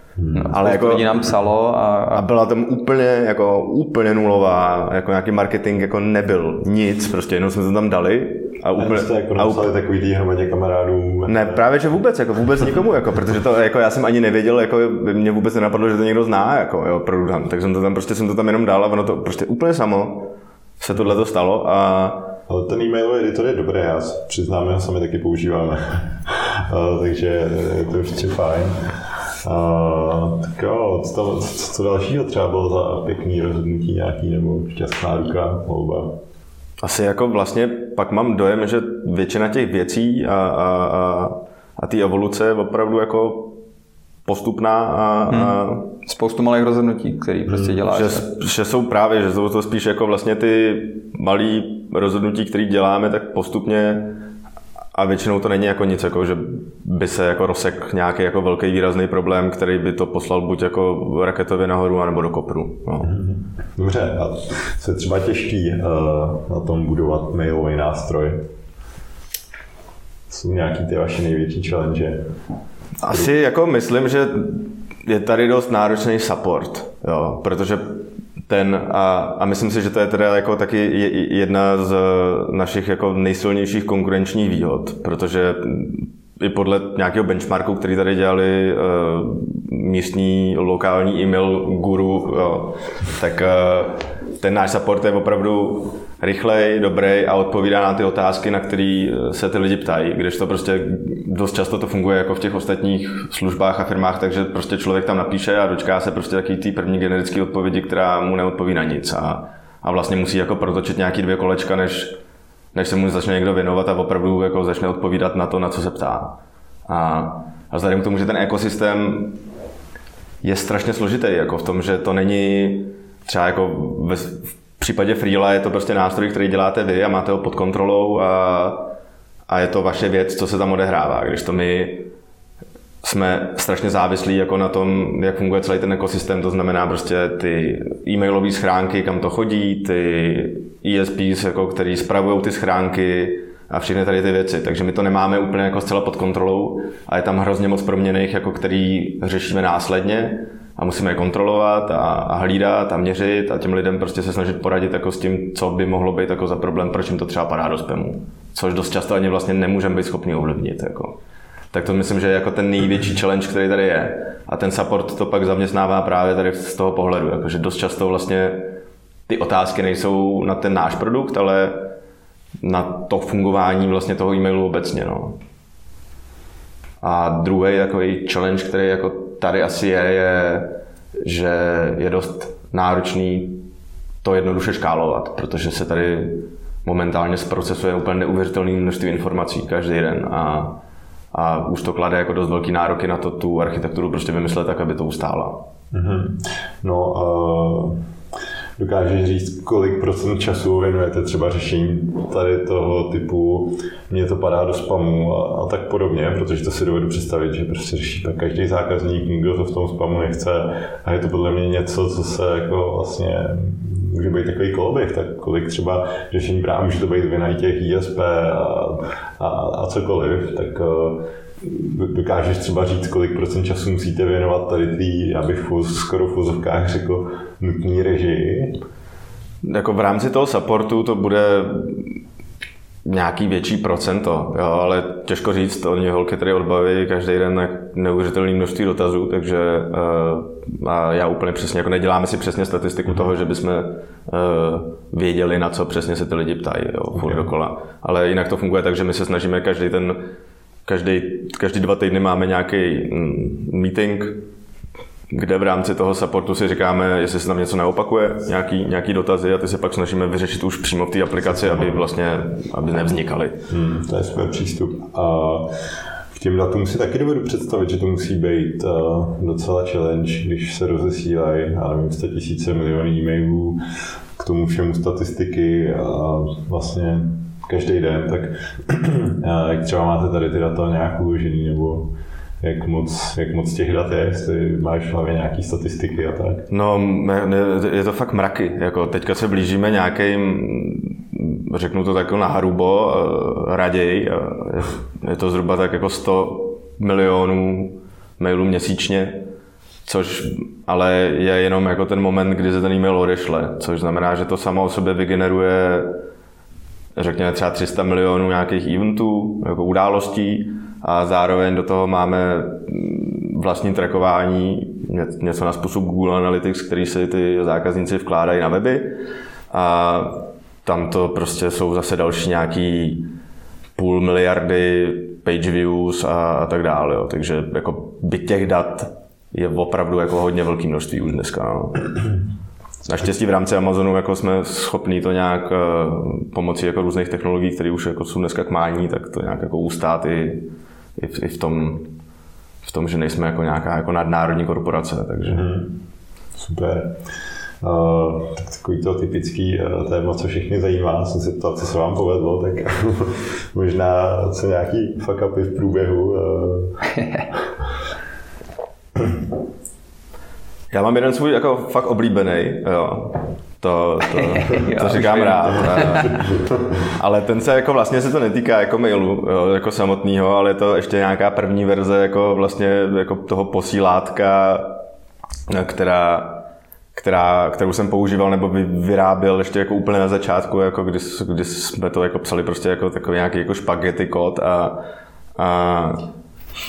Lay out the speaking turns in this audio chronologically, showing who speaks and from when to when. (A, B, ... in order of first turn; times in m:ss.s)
0:00.2-0:00.6 A
0:00.4-0:02.2 B
0:00.5-0:01.2 C
0:02.1-0:09.7 C
0:08.8-0:11.6 A
0:11.3-0:22.3 C
0:22.5-0:28.8 A
0:29.4-0:36.1 A
0:36.8-0:43.6 C
0:44.2-0:45.8 C
0:45.3-0:48.3 B
0:47.5-0:47.8 A
0:47.9-0:54.2 C
0:54.9-1:03.1 C
1:03.0-1:08.5 A
1:10.3-1:12.2 A
1:13.0-1:52.2 C
1:52.7-1:59.4 C
2:00.4-2:08.9 C
2:09.5-2:12.1 C
2:13.0-2:41.2 C
2:41.7-2:48.7 C
2:49.3-2:51.9 C
2:52.6-2:55.4 C
2:57.0-3:03.6 C
3:04.2-3:10.8 C
3:11.3-3:15.6 C
3:15.9-3:18.0 A
3:18.8-3:48.8 A
3:49.6-3:52.2 C
3:53.0-4:10.2 C
4:07.2-4:07.5 A
4:10.9-4:14.4 C
4:15.3-4:23.6 C
4:21.5-4:22.0 A
4:23.7-4:25.7 A
4:26.3-4:33.8 A
4:34.4-4:46.7 A
4:46.7-4:59.5 C
5:00.0-5:06.2 C
5:07.2-5:19.2 C
5:19.7-5:23.3 C
5:24.0-5:32.4 C
5:33.0-5:42.1 C
5:42.8-5:45.7 C
5:45.5-5:46.0 A
5:46.6-5:47.2 A
5:47.8-5:57.0 A
5:57.1-5:57.4 B
6:00.9-6:15.0 C
6:04.4-6:06.3 B
6:05.8-6:06.9 A
6:15.7-6:25.0 C
6:25.6-6:26.3 C